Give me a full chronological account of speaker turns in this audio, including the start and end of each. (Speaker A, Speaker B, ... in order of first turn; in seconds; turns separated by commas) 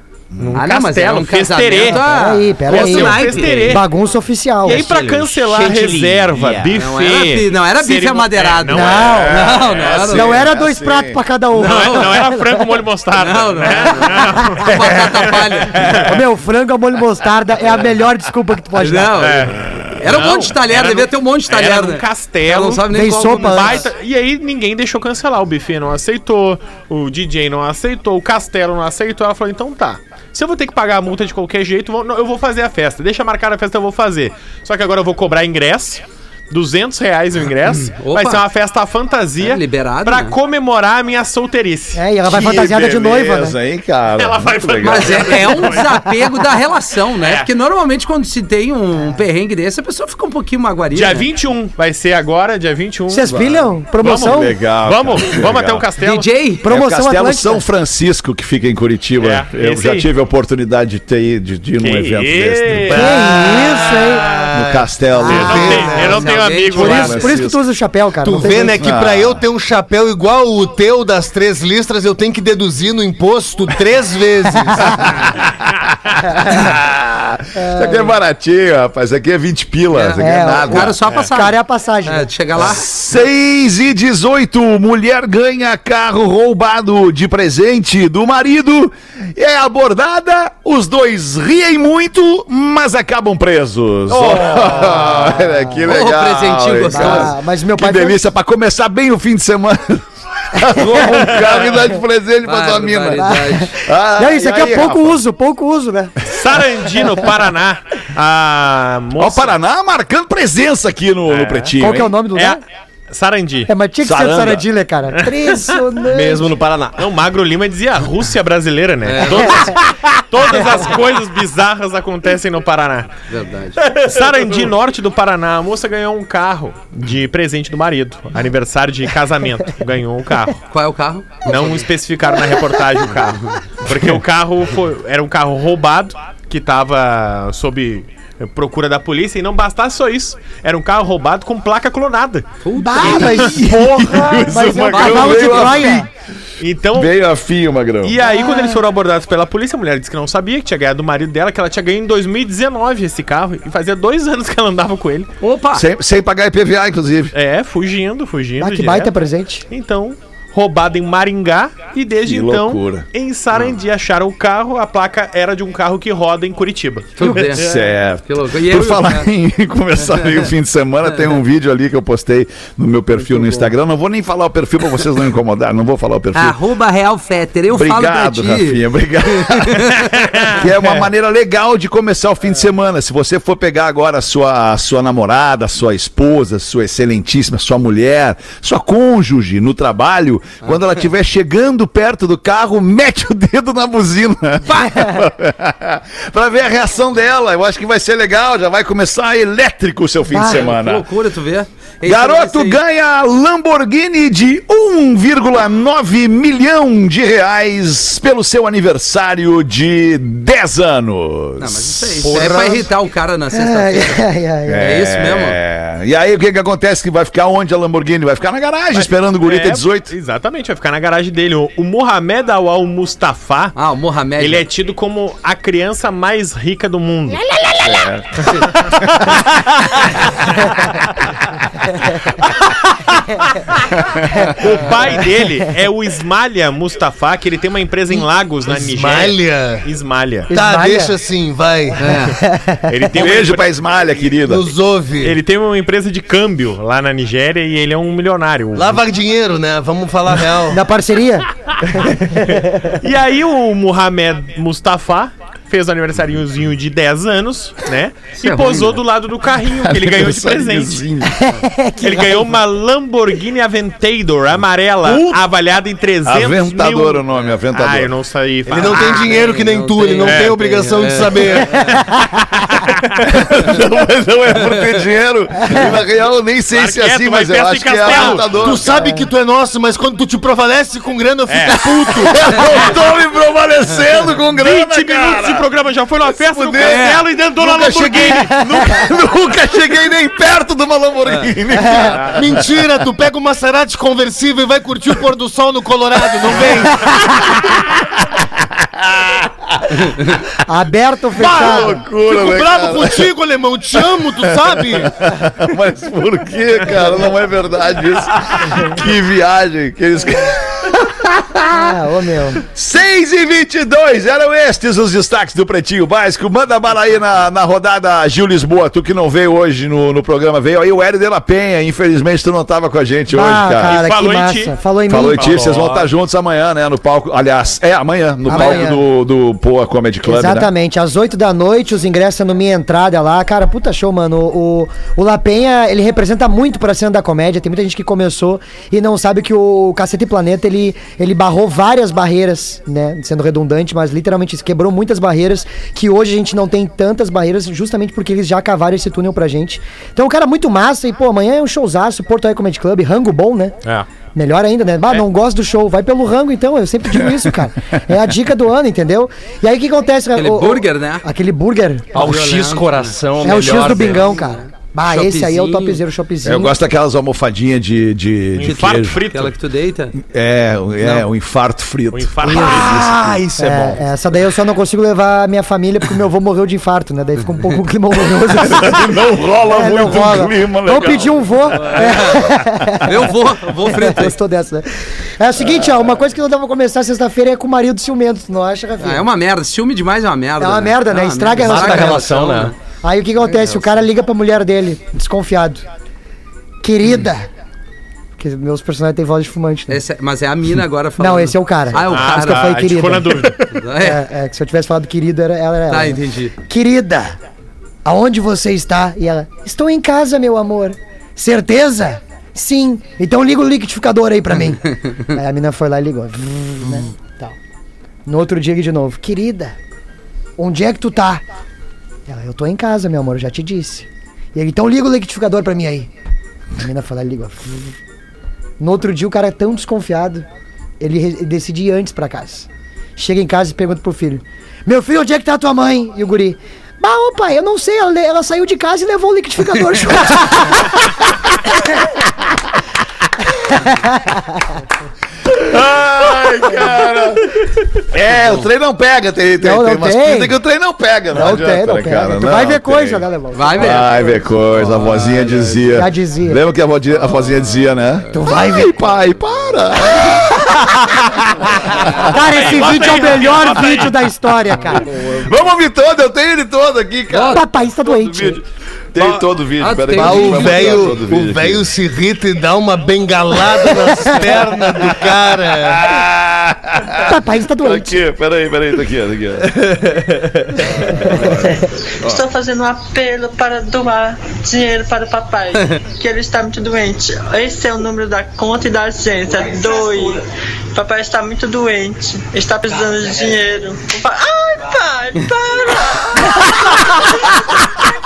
Speaker A: 0.3-0.6, Speaker B: 0.4-2.1, Speaker C: 0.5-3.8, Speaker D: 1.9-5.1, Speaker B: 2.7-3.9, Speaker B: 4.6-9.3, Speaker C: 4.7-5.9, Speaker E: 5.6-6.5, Speaker C: 6.5-10.3, Speaker D: 8.7-9.5, Speaker A: 8.9-11.2, Speaker D: 10.1-12.6, Speaker C: 11.6-12.1, Speaker B: 11.6-16.0, Speaker C: 13.2-16.1, Speaker D: 16.0-19.2, Speaker C: 18.8-23.9, Speaker B: 19.2-42.0, Speaker A: 19.7-19.9, Speaker D: 22.9-23.9, Speaker C: 37.9-38.4, Speaker C: 39.4-40.4, Speaker D: 42.0-43.6, Speaker A: 42.2-45.6, Speaker B: 44.1-46.3, Speaker C: 44.8-51.3, Speaker B: 47.2-47.5, Speaker B: 50.9-56.3, Speaker D: 53.1-54.5, Speaker A: 54.0-55.9, Speaker C: 56.0-56.6, Speaker D: 56.6-57.6, Speaker A: 56.6-63.2, Speaker B: 59.2-60.1, Speaker B: 61.8-64.3, Speaker D: 62.9-64.3, Speaker F: 63.2-66.4, Speaker A: 64.5-66.2, Speaker B: 65.2-67.5, Speaker D: 65.3-66.1, Speaker C: 65.9-67.5, Speaker D: 66.7-68.8, Speaker F: 68.2-75.1, Speaker A: 68.8-69.4, Speaker A: 74.9-81.2, Speaker D: 77.5-78.1, Speaker C: 79.9-82.9, Speaker D: 80.2-82.3, Speaker A: 82.6-105.2, Speaker D: 94.2-95.8, Speaker C: 95.9-97.3, Speaker D: 96.9-98.2, Speaker C: 102.4-103.7, Speaker D: 103.2-106.1, Speaker B: 106.3-109.6, Speaker A: 109.2-112.1, Speaker B: 111.3-111.8, Speaker D: 111.8-112.6, Speaker B: 112.3-113.7, Speaker D: 113.7-116.5, Speaker A: 114.0-114.7, Speaker B: 115.2-115.8, Speaker E: 116.1-117.1, Speaker B: 117.0-123.1, Speaker C: 119.0-119.7, Speaker C: 123.3-123.8, Speaker B: 123.8-130.6, Speaker C: 130.7-131.8, Speaker B: 131.4-142.5, Speaker C: 142.6-143.6, Speaker D: 142.8-146.1, Speaker A: 143.0-146.1, Speaker C: 144.9-145.9, Speaker B: 146.6-147.1, Speaker A: 146.9-148.2, Speaker B: 148.0-155.3, Speaker D: 148.2-148.8, Speaker C: 155.4-155.9, Speaker A: 155.7-157.3, Speaker B: 157.3-159.1, Speaker D: 158.6-159.7, Speaker B: 159.7-167.7, Speaker A: 162.2-163.1, Speaker C: 167.2-169.2, Speaker A: 167.4-176.6, Speaker C: 170.1-170.5, Speaker C: 173.3-173.7, Speaker C: 176.3-178.8, Speaker A: 177.7-201.1, Speaker C: 179.3-180.6, Speaker D: 200.3-200.6, Speaker C: 200.5-202.8, Speaker A: 202.0-212.6, Speaker C: 211.6-214.2, Speaker B: 212.3-212.9, Speaker D: 213.5-214.8, Speaker A: 214.7-220.1, Speaker C: 214.8-215.6, Speaker B: 218.9-223.8, Speaker C: 223.8-224.6, Speaker B: 224.4-227.5, Speaker A: 227.8-228.7, Speaker B: 228.4-229.3, Speaker A: 234.0-234.7, Speaker B: 234.6-240.5, Speaker F: 238.7-239.9, Speaker F: 240.5-242.2, Speaker D: 240.5-241.1, Speaker C: 242.0-242.4, Speaker D: 242.4-242.9, Speaker B: 242.9-243.8, Speaker A: 243.2-244.7, Speaker F: 244.4-245.4, Speaker B: 245.2-249.0, Speaker F: 248.7-250.8, Speaker D: 250.7-252.5, Speaker B: 252.5-261.1, Speaker C: 258.4-259.0, Speaker A: 259.7-261.5, Speaker D: 261.4-262.2, Speaker B: 262.0-269.3, Speaker A: 265.0-265.4, Speaker A: 266.3-268.1, Speaker F: 268.7-272.0, Speaker C: 269.2-271.9, Speaker B: 270.2-270.6, Speaker A: 273.2-279.1, Speaker B: 276.7-278.7, Speaker F: 278.1-282.7, Speaker B: 281.5-282.1, Speaker A: 281.8-285.7, Speaker B: 284.6-288.6, Speaker A: 286.3-292.8, Speaker F: 286.9-288.3, Speaker F: 292.3-297.3, Speaker A: 296.9-300.1, Speaker D: 300.7-302.0, Speaker A: 301.4-303.3, Speaker F: 301.5-305.1, Speaker A: 304.0-312.0, Speaker D: 311.7-312.6, Speaker A: 312.6-324.0, Speaker D: 323.3-325.5, Speaker B: 323.9-324.8, Speaker A: 325.1-330.7, Speaker B: 325.3-326.1, Speaker D: 328.5-329.0, Speaker D: 330.2-353.8, Speaker D: 354.4-362.2, Speaker A: 357.1-358.0, Speaker C: 360.4-361.3, Speaker E: 362.1-364.3, Speaker C: 362.1-366.0, Speaker D: 363.4-366.8, Speaker A: 366.4-369.2, Speaker B: 368.5-369.5, Speaker C: 368.7-370.2, Speaker A: 370.2-373.4, Speaker C: 371.0-371.3, Speaker B: 372.1-373.0, Speaker F: 372.4-374.0, Speaker D: 373.6-379.2, Speaker A: 378.6-383.0, Speaker D: 379.7-383.2, Speaker C: 381.9-382.4, Speaker C: 383.0-384.4, Speaker D: 383.8-389.3, Speaker C: 389.0-392.7, Speaker D: 390.6-392.4, Speaker E: 391.6-392.7, Speaker D: 393.0-395.8, Speaker C: 393.4-394.1, Speaker D: 396.8-397.5, Speaker D: 398.4-400.0, Speaker C: 399.9-402.8, Speaker D: 401.2-407.4, Speaker B: 402.1-403.8, Speaker C: 403.7-404.3, Speaker C: 405.9-406.5, Speaker D: 408.1-417.6, Speaker D: 418.3-419.8, Speaker D: 420.6-421.4, Speaker D: 422.3-426.1, Speaker D: 426.8-428.0, Speaker D: 428.8-430.5, Speaker D: 431.0-441.1, Speaker D: 443.6-444.6, Speaker A: 445.5-447.5, Speaker A: 448.1-453.2, Speaker C: 448.4-448.6, Speaker D: 449.6-450.6, Speaker D: 451.3-454.4, Speaker C: 453.5-455.9, Speaker A: 453.8-462.4, Speaker D: 455.9-456.6, Speaker D: 458.3-459.0, Speaker D: 462.3-465.1, Speaker B: 462.5-464.3, Speaker A: 465.0-471.8, Speaker C: 467.3-467.6, Speaker D: 467.5-468.6, Speaker C: 469.2-471.2, Speaker F: 470.1-476.1, Speaker A: 474.8-479.8, Speaker D: 477.1-478.2, Speaker E: 480.2-480.5, Speaker A: 480.9-482.4, Speaker G: 481.7-490.4, Speaker G: 490.9-497.6